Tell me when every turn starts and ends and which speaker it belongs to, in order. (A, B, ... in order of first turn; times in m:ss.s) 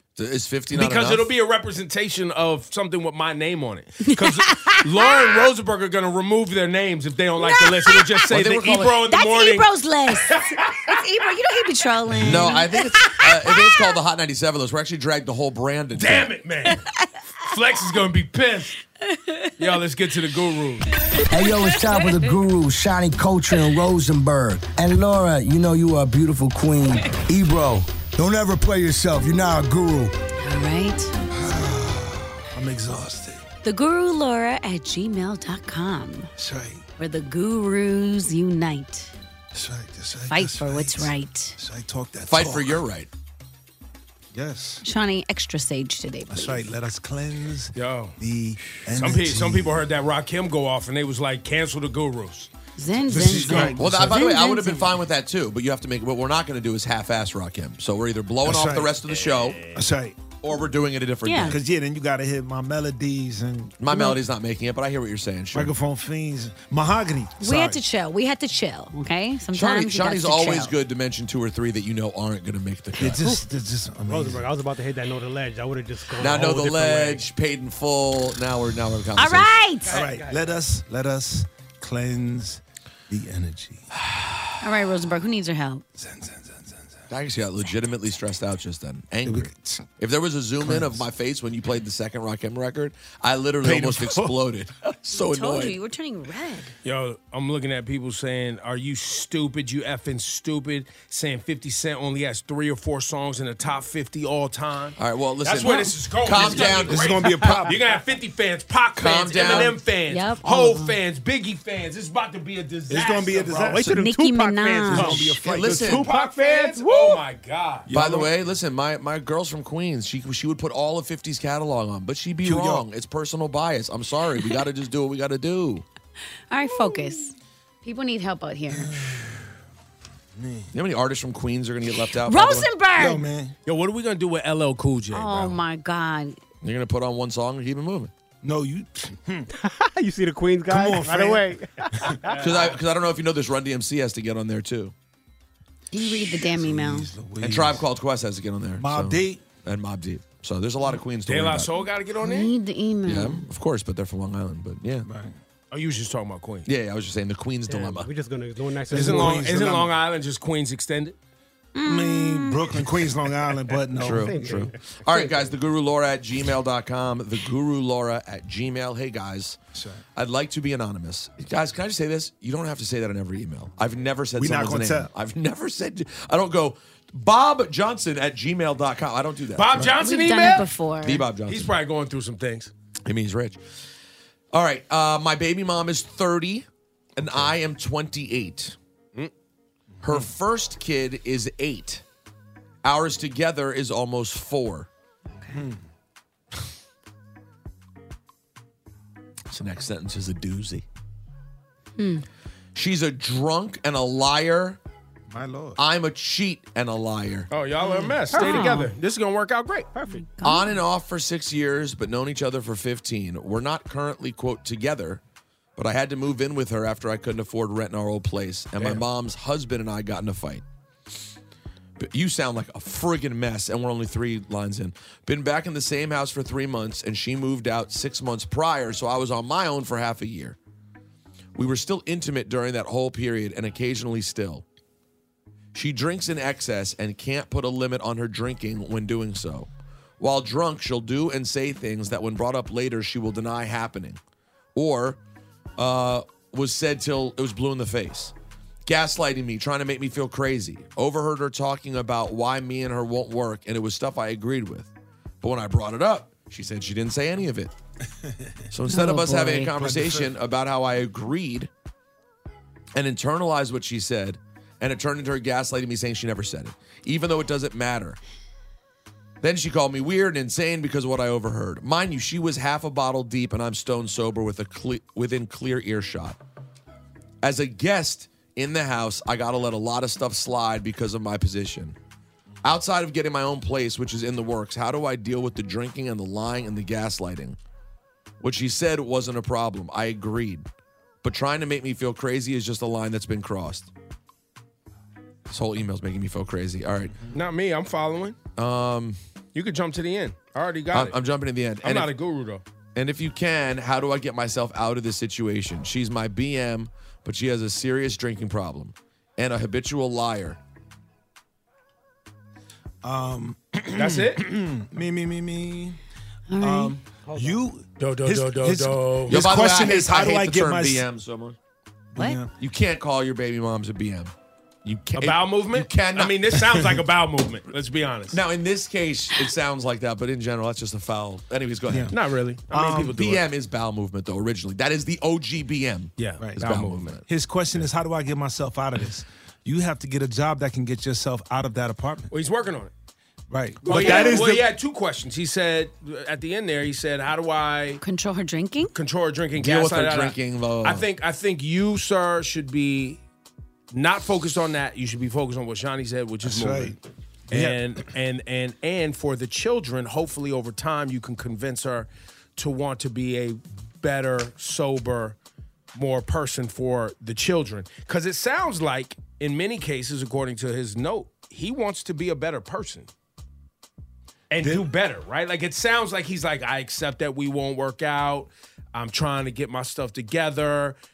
0:00.2-0:01.3 A
0:00.7-0:09.7 B
0:04.0-0:05.5 C
0:07.4-0:08.3 C
0:08.3-0:09.0 A
0:09.0-0:13.9 C
0:10.2-0:11.0 B
0:12.2-0:16.3 A
0:15.9-0:16.9 B
0:16.7-0:17.0 C
0:17.4-0:18.8 B
0:19.1-0:19.5 C
0:19.6-0:21.0 B
0:21.1-0:22.3 C
0:21.3-0:30.1 D
0:30.4-0:31.1 C
0:31.3-0:33.4 E
0:33.6-0:36.3 C
0:36.4-0:36.8 E
0:37.0-0:39.1 C
0:39.5-0:42.8 E
0:40.3-0:41.6 C
0:42.2-0:43.1 A
0:44.3-0:44.8 E
0:44.8-0:46.6 C
0:46.3-0:49.8 E
0:47.7-0:48.2 B
0:48.9-0:52.5 B
0:52.8-0:55.0 C
0:53.1-0:54.3 E
0:53.4-0:59.7 A
0:58.4-0:59.0 E
0:59.2-0:59.5 B
0:59.7-1:00.2 E
1:00.4-1:01.6 A
1:01.2-1:01.6 C
1:01.4-1:03.8 E
1:03.8-1:05.7 A
1:03.9-1:04.2 C
1:05.5-1:07.8 E
1:07.4-1:10.7 C
1:09.5-1:13.2 A
1:12.9-1:14.4 E
1:14.0-1:17.2 F
1:16.2-1:19.6 A
1:19.2-1:20.0 C
1:19.9-1:23.9 E
1:19.9-1:20.4 F
1:24.6-1:25.8 C
1:26.0-1:27.0 E
1:27.1-1:35.8 A
1:29.2-1:29.9 E
1:30.6-1:31.0 E
1:33.6-1:34.4 E
1:35.2-1:36.7 C
1:36.8-1:53.7 B
1:45.0-1:47.6 A
1:46.3-1:47.8 E
1:49.0-1:49.9 A
1:50.1-1:51.0 C
1:52.9-1:54.0 E
1:53.6-1:55.4 F
1:53.8-1:55.4 C
1:54.9-1:56.3 E
1:55.4-1:56.1 A
1:55.6-1:57.9 B
1:56.0-1:57.2 F
1:57.9-1:58.3 E
1:57.9-2:05.8 A
2:02.4-2:02.8 E
2:06.5-2:09.0 C
2:08.7-2:09.5 E
2:10.4-2:10.7 E
2:10.7-2:12.7 A
2:12.0-2:13.2 C
2:13.0-2:13.5 E
2:13.6-2:15.6 B
2:15.1-2:16.4 C
2:16.6-2:18.1 A
2:18.4-2:19.5 E
2:19.5-2:22.7 F
2:20.7-2:22.2 E
2:22.3-2:22.7 B
2:22.4-2:24.9 A
2:25.9-2:27.1 C
2:26.0-2:27.9 E
2:27.4-2:31.7 A
2:28.8-2:29.5 E
2:31.2-2:32.5 B
2:32.2-2:33.4 C
2:33.0-2:35.1 A
2:35.0-2:35.3 E
2:35.7-2:36.7 B
2:36.6-2:38.1 A
2:37.7-2:39.4 F
2:38.9-2:39.9 E
2:38.9-2:41.2 B
2:41.7-2:42.8 C
2:41.8-2:44.4 E
2:43.9-2:45.3 F
2:44.0-2:49.6 A
2:49.7-2:50.0 E
2:50.1-2:59.8 A
2:54.4-2:55.1 E
2:59.5-3:00.7 B
3:00.0-3:01.3 C
3:01.0-3:01.7 A
3:01.4-3:02.7 B
3:03.0-3:03.6 A
3:04.5-3:08.8 A
3:10.0-3:10.3 E
3:10.0-3:12.0 A
3:12.8-3:14.9 A
3:15.5-3:15.8 E
3:19.5-3:20.8 A
3:22.0-3:22.2 C
3:22.7-3:24.8 A
3:25.3-3:25.8 E
3:25.8-3:27.5 A
3:27.5-3:29.9 B
3:27.8-3:28.9 C
3:28.3-3:28.6 F
3:29.9-3:30.2 F
3:30.1-3:30.7 C
3:30.4-3:35.2 A
3:35.8-3:40.6 A
3:42.0-3:50.6 A
3:51.5-3:54.6 A
3:55.7-3:59.7 A
4:00.2-4:04.2 A
4:04.7-4:05.2 A
4:05.8-4:08.3 A
4:08.8-4:17.7 A
4:18.2-4:18.5 E
4:18.7-4:21.7 A
4:18.9-4:19.9 C
4:19.7-4:20.3 E
4:22.9-4:28.2 A
4:29.4-4:36.4 A
4:37.4-4:42.0 A
4:42.6-4:47.6 A
4:48.4-4:50.6 A
4:51.2-4:53.9 A
4:55.5-4:57.2 A
4:57.3-4:58.4 B
4:58.6-4:59.2 A
4:59.5-5:01.2 B
5:00.9-5:02.1 A
5:01.8-5:02.6 B
5:02.9-5:10.6 A
5:13.0-5:16.0 E
5:13.9-5:14.4 B
5:16.5-5:17.0 C
5:16.6-5:21.1 E
5:17.2-5:17.6 F
5:18.0-5:19.5 B
5:19.3-5:21.6 A
5:22.1-5:22.5 E
5:22.2-5:22.4 C
5:22.6-5:24.3 A
5:24.8-5:26.6 A
5:25.1-5:28.4 B
5:28.3-5:32.2 A
5:31.9-5:32.2 E
5:32.1-5:33.4 B
5:32.7-5:33.2 E
5:33.1-5:37.2 A
5:36.2-5:37.2 B
5:36.4-5:36.7 E
5:37.2-5:42.3 E
5:42.3-5:42.9 B
5:43.5-5:44.7 E
5:43.8-5:48.0 B
5:43.9-5:44.2 A
5:48.0-5:48.9 C
5:48.9-5:53.2 B
5:49.5-5:51.0 A
5:53.9-5:57.0 B
5:56.4-5:57.0 E
5:57.5-6:05.4 B
5:57.5-5:58.0 E
6:05.9-6:13.1 B
6:14.5-6:21.0 B
6:14.6-6:14.9 E